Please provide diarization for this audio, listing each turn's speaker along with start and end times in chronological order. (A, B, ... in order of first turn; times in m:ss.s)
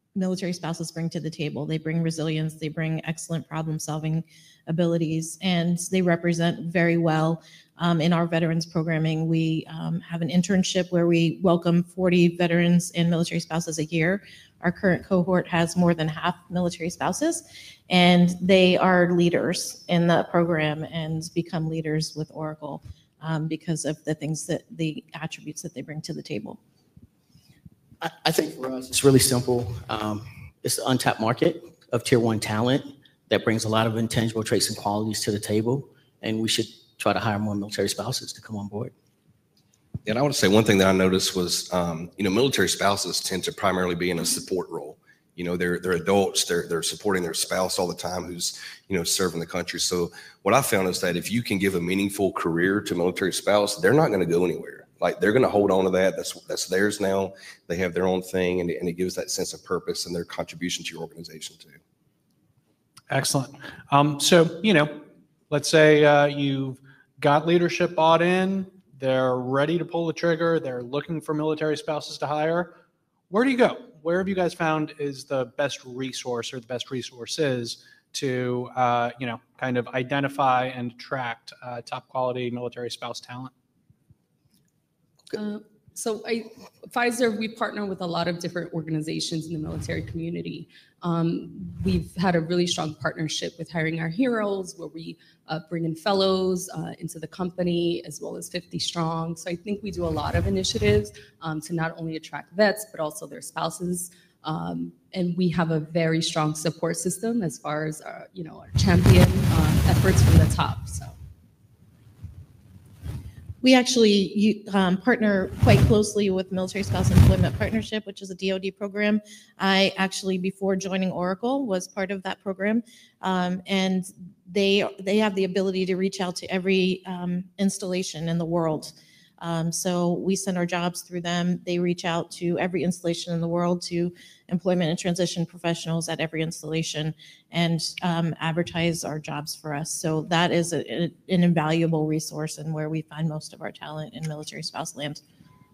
0:00.2-0:26.6 A
0:28.0-0:38.9 B
0:40.0-1:01.8 C
1:03.1-1:12.7 D
1:13.3-1:23.5 D
1:25.3-1:51.1 E
1:53.6-2:25.2 A